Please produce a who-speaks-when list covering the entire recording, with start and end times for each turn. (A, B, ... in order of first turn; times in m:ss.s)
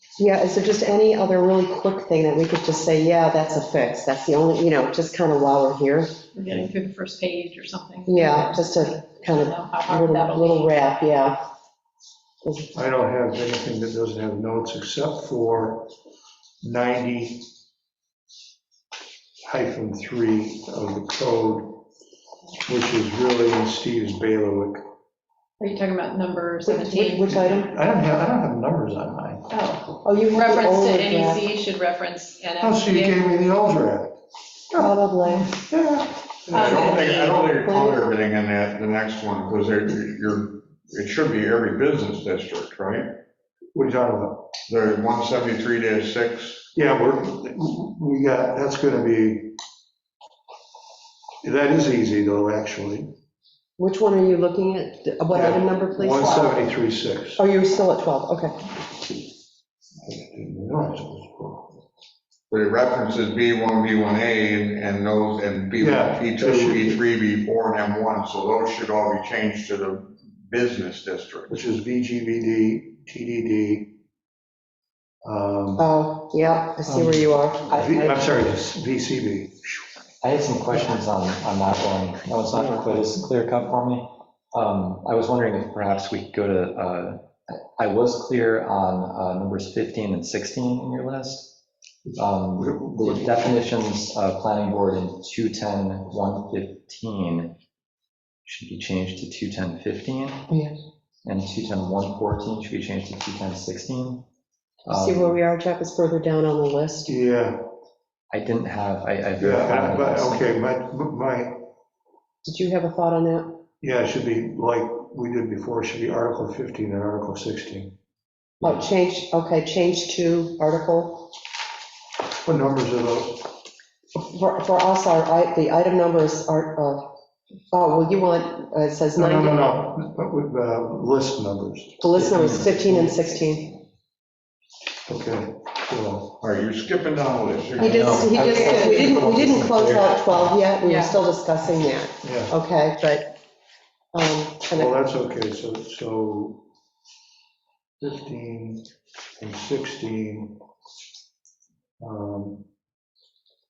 0:00.2-0:06.2 A
0:06.4-0:10.7 B
0:08.1-0:11.4 A
0:12.7-0:15.9 C
0:16.6-0:17.5 C
0:19.5-0:21.9 C
0:22.6-0:24.8 C
0:25.6-0:27.3 B
0:26.7-0:27.8 A
0:27.3-0:29.5 C
0:29.5-0:33.2 B
0:30.0-0:31.4 A
0:32.6-0:34.2 C
0:34.7-0:36.9 C
0:34.7-0:35.6 A
0:36.5-0:43.1 D
0:36.5-0:37.6 B
0:37.6-0:38.0 A
0:43.8-0:44.5 C
0:44.7-0:46.7 D
0:46.7-0:49.6 C
0:51.4-0:53.1 C
0:53.8-0:56.7 A
0:55.3-0:57.4 C
0:57.4-0:58.7 A
1:00.0-1:01.8 C
1:02.5-1:11.6 D
1:05.8-1:07.0 C
1:11.5-1:14.0 C
1:15.2-1:15.9 C
1:15.8-1:18.2 A
1:16.8-1:20.0 C
1:20.2-1:31.6 E
1:32.1-1:33.8 C
1:32.2-1:37.6 E
1:38.4-1:40.5 E
1:40.5-1:40.8 A
1:41.2-1:44.2 E
1:44.9-1:45.4 E
1:44.9-1:47.1 A
1:47.1-1:47.6 C
1:48.3-1:50.5 E
1:49.4-1:51.7 C
1:52.4-1:53.6 A
1:53.8-1:57.9 C
1:58.6-2:01.3 A
2:02.4-2:03.5 C
2:04.3-2:07.1 A
2:07.7-2:09.6 A
2:09.2-2:13.2 C
2:12.0-2:13.8 A
2:12.4-2:12.6 E
2:15.1-2:16.4 C
2:16.4-2:18.5 D
2:17.8-2:20.6 E
2:17.8-2:23.4 A
2:18.4-2:19.2 B
2:20.8-2:21.2 B
2:22.2-2:22.6 C
2:24.1-2:24.9 A
2:24.7-2:26.7 C
2:28.0-2:28.9 C
2:29.4-2:30.6 C
2:32.0-2:32.7 C